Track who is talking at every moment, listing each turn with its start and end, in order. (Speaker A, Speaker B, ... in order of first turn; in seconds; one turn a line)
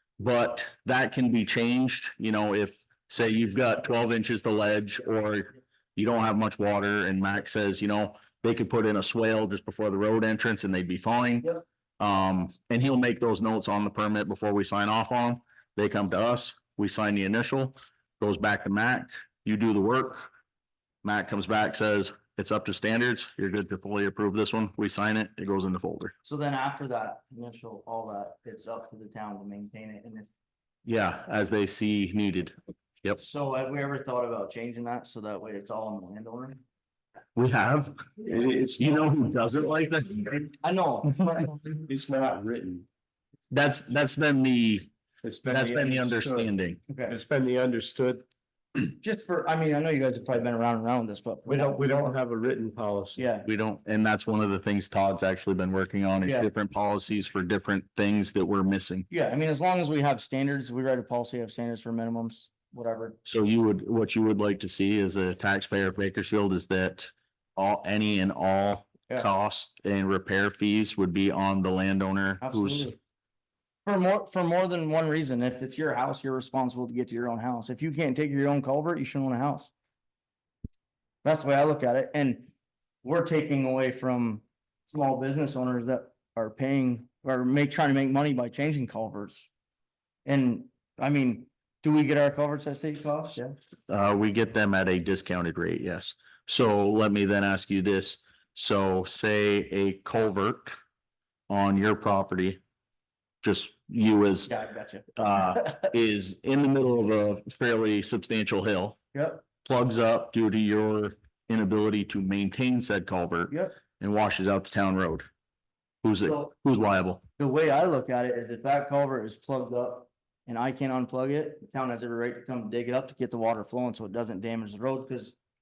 Speaker A: 0.2-20.3
Speaker A: 21.0-26.1
Speaker B: 26.2-30.3
Speaker A: 30.9-33.2
Speaker B: 33.2-36.6
Speaker A: 37.4-40.4
Speaker B: 40.4-41.6
Speaker C: 41.6-42.9
Speaker A: 43.5-44.9
Speaker C: 45.2-46.5
Speaker A: 45.5-46.8
Speaker B: 46.9-47.2
Speaker C: 47.1-48.2
Speaker B: 49.0-52.0
Speaker C: 51.5-53.2
Speaker B: 53.2-53.5
Speaker A: 53.5-59.1
Speaker B: 56.2-56.5
Speaker B: 59.1-63.2
Speaker A: 63.2-72.9
Speaker B: 72.4-73.0
Speaker B: 73.9-79.7
Speaker B: 81.2-82.5
Speaker B: 83.0-89.5
Speaker B: 90.3-93.5
Speaker A: 93.9-100.8
Speaker A: 101.5-102.6
Speaker A: 103.4-104.5
Speaker B: 104.5-105.8
Speaker A: 105.2-109.0
Speaker B: 109.1-109.4
Speaker A: 109.6-115.3
Speaker B: 113.5-113.8
Speaker A: 116.0-117.2
Speaker B: 117.4-125.4